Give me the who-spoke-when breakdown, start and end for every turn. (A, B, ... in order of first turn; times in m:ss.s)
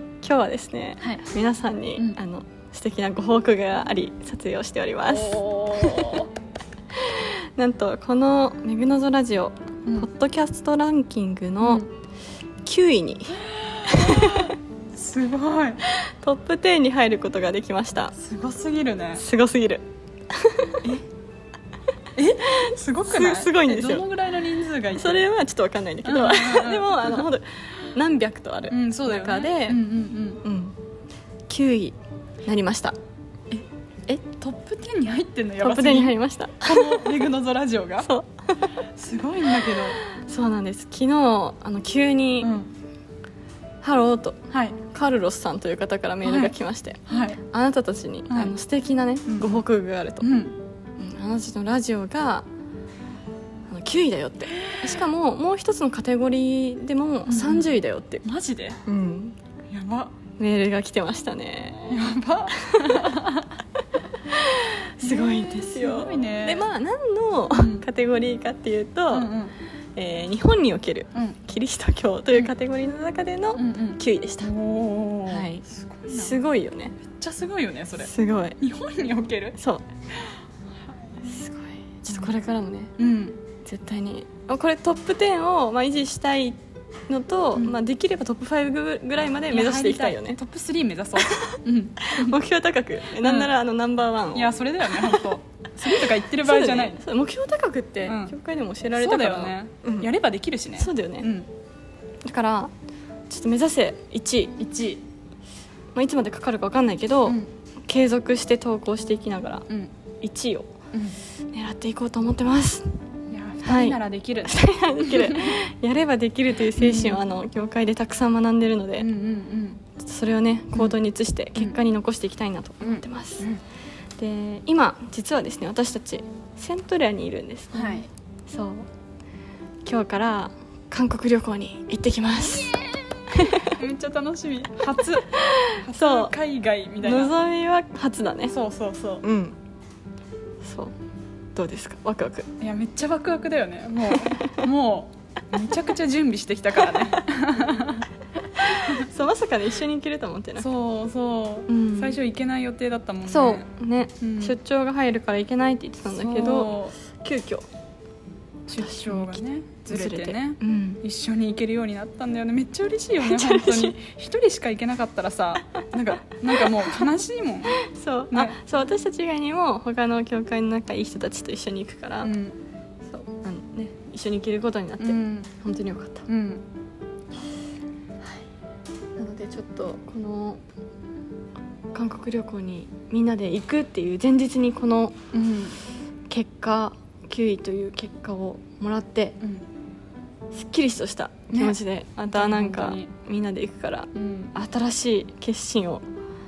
0:00.2-0:06.2 A
0:05.1-0:06.3 B
0:07.0-0:11.8 A
0:12.6-0:14.5 A
0:13.4-0:15.8 B
0:15.8-0:18.2 A
0:18.2-0:19.2 B
0:19.2-0:20.8 A
0:22.2-0:25.3 B
0:22.5-0:24.1 A
0:24.9-0:29.8 A
0:26.0-0:27.3 B
0:28.7-0:30.4 B
0:30.4-0:30.8 A
0:31.5-0:33.0 A
0:34.2-0:38.1 B
0:35.6-0:37.2 A
0:38.0-0:38.7 A
0:39.0-0:40.0 B
0:40.0-0:42.5 A
0:42.4-0:42.7 B
0:43.8-0:50.3 A
0:44.5-0:44.8 B
0:46.2-0:47.4 B
0:49.3-0:49.6 B
0:50.2-0:50.6 B
0:51.0-0:52.5 A
0:53.7-0:58.2 A
0:57.3-0:57.7 B
0:58.2-0:58.8 B
0:58.9-0:59.4 A
0:59.7-1:00.2 B
1:00.4-1:03.1 A
1:01.9-1:03.6 B
1:04.3-1:09.3 A
1:05.0-1:06.7 B
1:07.5-1:07.8 B
1:09.1-1:09.5 B
1:10.0-1:14.5 A
1:11.1-1:11.4 B
1:13.6-1:16.4 B
1:15.3-1:17.0 A
1:17.1-1:19.6 B
1:18.0-1:18.6 A
1:19.6-1:19.8 A
1:21.2-1:23.0 A
1:23.0-1:23.4 B
1:23.6-1:30.4 A
1:29.5-1:32.4 B
1:32.0-1:35.2 A
1:33.2-1:33.5 B
1:34.3-1:37.1 B
1:36.4-1:40.1 A
1:38.1-1:38.4 B
1:39.0-1:41.5 B
1:40.7-1:41.3 A
1:42.2-1:42.7 A
1:43.3-1:44.6 A
1:44.6-1:45.0 B
1:46.0-1:49.7 A
1:50.2-1:50.7 A
1:51.5-1:52.8 A
1:53.3-1:55.6 B
1:53.6-1:59.1 A
1:56.8-1:57.2 B
1:59.0-1:59.8 B
1:59.9-2:03.5 A
2:02.8-2:03.6 B
2:04.2-2:08.9 A
2:07.7-2:08.1 B
2:09.8-2:13.8 A
2:13.8-2:17.4 B
2:15.3-2:16.3 A
2:17.0-2:18.6 A
2:18.5-2:19.2 B
2:19.2-2:19.6 A
2:20.6-2:20.9 A
2:21.6-2:22.5 A
2:22.6-2:28.1 B
2:28.7-2:30.7 A
2:30.6-2:33.7 B
2:31.7-2:32.2 A
2:33.3-2:37.7 A
2:34.2-2:34.6 B
2:36.1-2:37.0 B
2:38.7-2:48.6 B
2:38.8-2:41.0 A
2:43.2-2:44.0 A
2:47.8-2:52.3 A
2:52.2-2:52.6 B
2:53.1-2:56.3 A
2:55.0-2:55.5 B
2:56.3-2:56.6 B
2:59.2-3:00.6 A
3:01.9-3:05.2 A
3:05.3-3:05.8 B
3:06.3-3:09.4 A
3:10.5-3:16.0 A
3:11.5-3:11.8 B
3:12.3-3:13.1 B
3:14.1-3:14.6 B